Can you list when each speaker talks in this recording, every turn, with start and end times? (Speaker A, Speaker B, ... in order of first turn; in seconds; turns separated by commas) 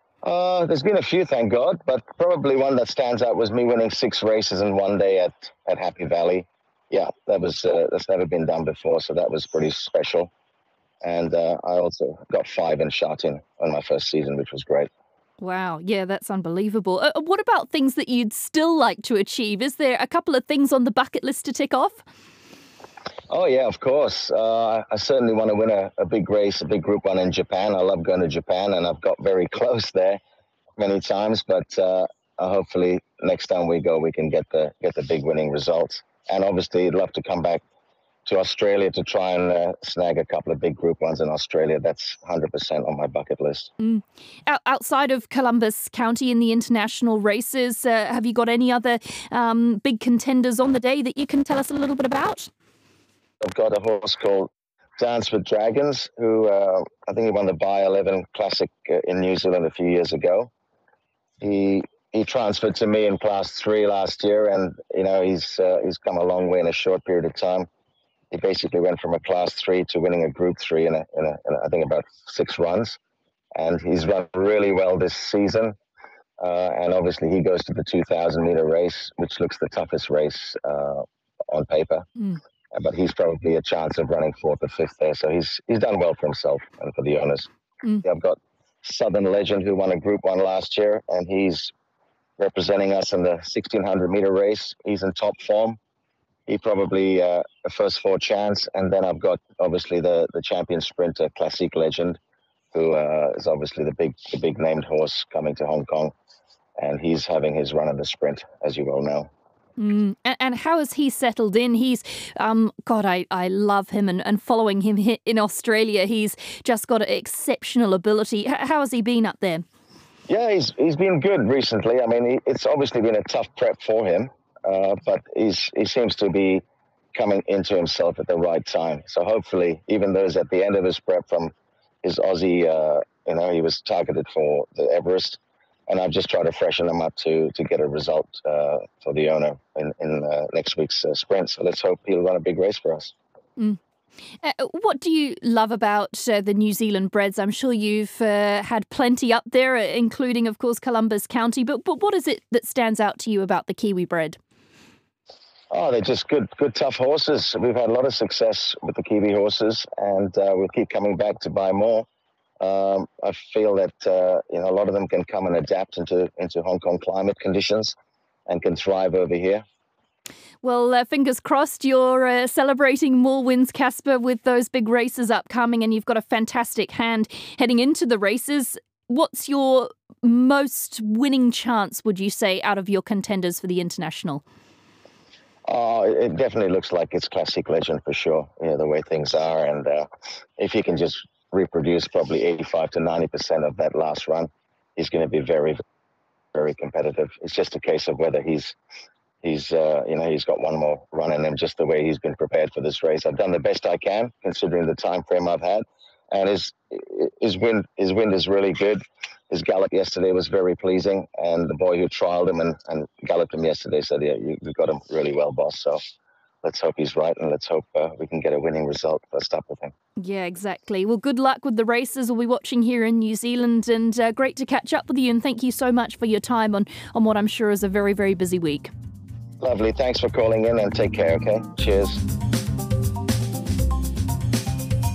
Speaker A: 0.2-10.3, Speaker A: 11.0-14.9, Speaker B: 15.4-22.0, Speaker A: 23.3-30.2, Speaker A: 30.8-37.6, Speaker A: 38.2-43.7, Speaker B: 43.8-52.5, Speaker A: 53.4-60.5, Speaker A: 61.4-67.7, Speaker A: 68.3-73.0, Speaker A: 73.5-75.8, Speaker A: 76.4-82.0, Speaker A: 82.7-87.5, Speaker A: 88.0-91.7, Speaker A: 92.4-95.8, Speaker A: 96.5-102.2, Speaker A: 102.7-106.1, Speaker A: 106.8-109.3, Speaker B: 109.8-119.6, Speaker A: 120.3-126.6, Speaker A: 127.1-131.5, Speaker A: 132.0-143.1, Speaker B: 144.4-154.4, Speaker A: 155.7-162.1, Speaker A: 162.6-167.9, Speaker A: 168.5-169.6, Speaker B: 170.6-184.4, Speaker A: 185.7-195.8, Speaker A: 196.5-198.8, Speaker A: 199.4-216.0, Speaker A: 216.6-219.9, Speaker B: 220.2-228.9, Speaker A: 229.6-232.2